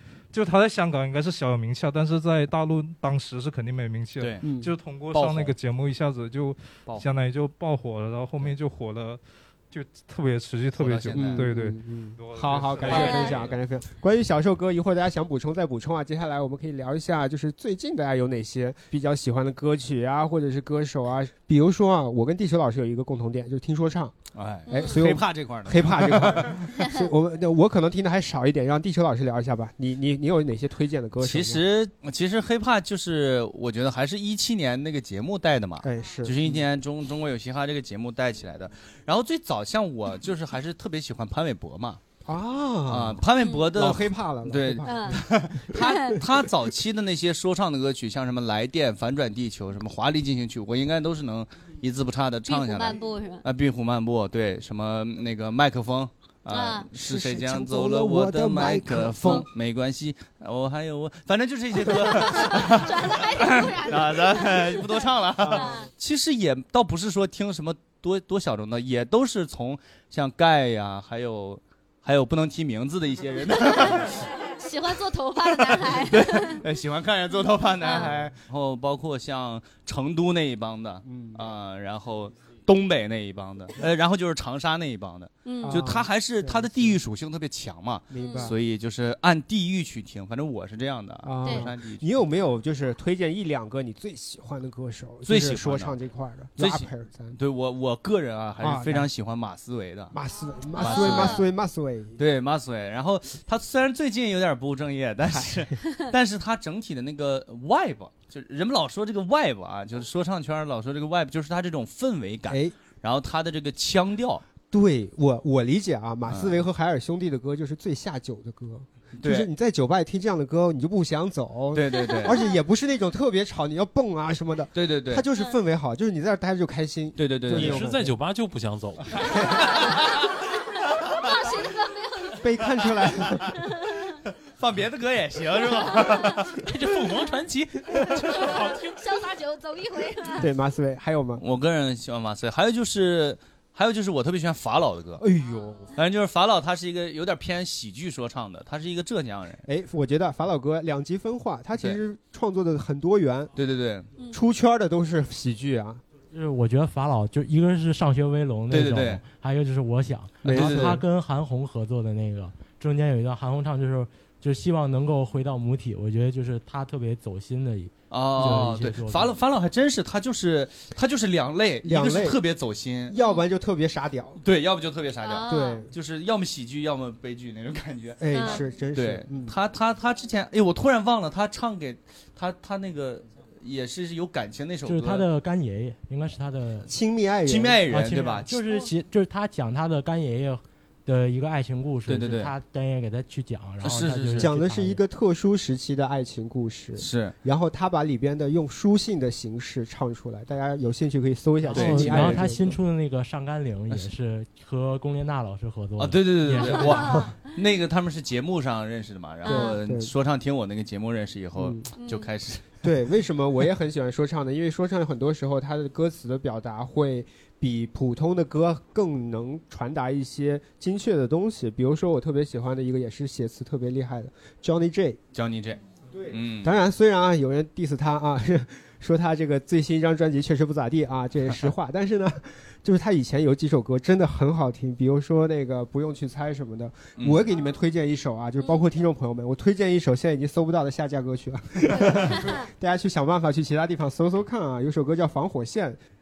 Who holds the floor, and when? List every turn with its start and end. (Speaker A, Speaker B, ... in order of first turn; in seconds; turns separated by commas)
Speaker A: 0.3-13.4, Speaker B: 4.2-4.5, Speaker C: 4.4-4.7, Speaker B: 5.1-5.5, Speaker B: 10.8-11.5, Speaker C: 11.1-24.1, Speaker B: 12.8-13.4, Speaker D: 12.9-13.4, Speaker B: 24.3-26.6, Speaker D: 24.7-25.0, Speaker C: 24.7-31.6, Speaker D: 26.8-27.0, Speaker B: 31.2-42.0, Speaker C: 35.8-36.6, Speaker C: 42.2-43.2, Speaker B: 42.9-74.3, Speaker D: 43.4-43.7, Speaker C: 43.7-45.4, Speaker D: 44.8-45.2, Speaker D: 45.7-46.1, Speaker D: 52.5-53.4, Speaker D: 56.5-56.9, Speaker C: 57.0-59.5, Speaker D: 62.1-65.9, Speaker C: 65.4-65.8, Speaker D: 73.7-76.6, Speaker B: 75.4-92.2, Speaker D: 77.8-78.1, Speaker C: 78.0-78.3, Speaker C: 81.0-81.4, Speaker D: 85.4-85.8, Speaker C: 85.6-87.0, Speaker C: 88.1-88.6, Speaker D: 88.2-88.5, Speaker C: 91.2-97.4, Speaker D: 91.4-91.7, Speaker B: 95.2-96.0, Speaker B: 96.6-100.1, Speaker C: 98.6-99.1, Speaker C: 100.1-102.2, Speaker D: 100.8-101.4, Speaker B: 100.8-101.4, Speaker B: 102.2-114.4, Speaker C: 105.3-105.6, Speaker C: 112.5-112.7, Speaker C: 114.7-128.1, Speaker B: 116.3-116.6, Speaker B: 119.2-119.5, Speaker B: 121.7-122.4, Speaker D: 122.2-122.5, Speaker B: 124.7-125.2, Speaker B: 127.2-127.8, Speaker E: 127.5-129.2, Speaker C: 129.3-129.6, Speaker B: 129.7-130.0, Speaker D: 130.9-132.7, Speaker C: 132.4-133.5, Speaker D: 133.5-134.2, Speaker B: 134.6-136.5, Speaker E: 136.6-139.0, Speaker D: 138.3-140.5, Speaker C: 140.4-141.4, Speaker B: 141.4-145.2, Speaker C: 145.2-145.9, Speaker B: 145.9-149.6, Speaker C: 149.7-153.5, Speaker B: 153.5-154.1, Speaker C: 154.3-156.0, Speaker F: 156.3-169.3, Speaker B: 158.7-159.2, Speaker C: 160.4-161.0, Speaker B: 160.5-161.0, Speaker B: 168.1-173.2, Speaker C: 171.8-172.4, Speaker C: 173.1-174.4, Speaker D: 173.2-173.4, Speaker B: 174.4-178.2, Speaker D: 175.2-175.8, Speaker C: 175.5-175.9, Speaker C: 178.2-179.6, Speaker D: 178.3-178.6, Speaker B: 178.9-185.3, Speaker F: 184.8-186.9, Speaker C: 186.8-187.8, Speaker B: 187.4-188.6, Speaker F: 187.9-195.0, Speaker B: 192.1-192.5, Speaker B: 193.8-194.5, Speaker C: 194.4-202.8, Speaker B: 197.0-197.3, Speaker F: 201.6-207.3, Speaker B: 201.7-202.4, Speaker B: 206.0-212.8, Speaker C: 209.4-210.1, Speaker D: 209.4-209.8, Speaker C: 211.6-211.8, Speaker D: 212.0-212.3, Speaker C: 212.8-225.2, Speaker B: 225.3-226.8, Speaker C: 226.1-246.0, Speaker B: 237.2-237.5, Speaker B: 242.0-242.3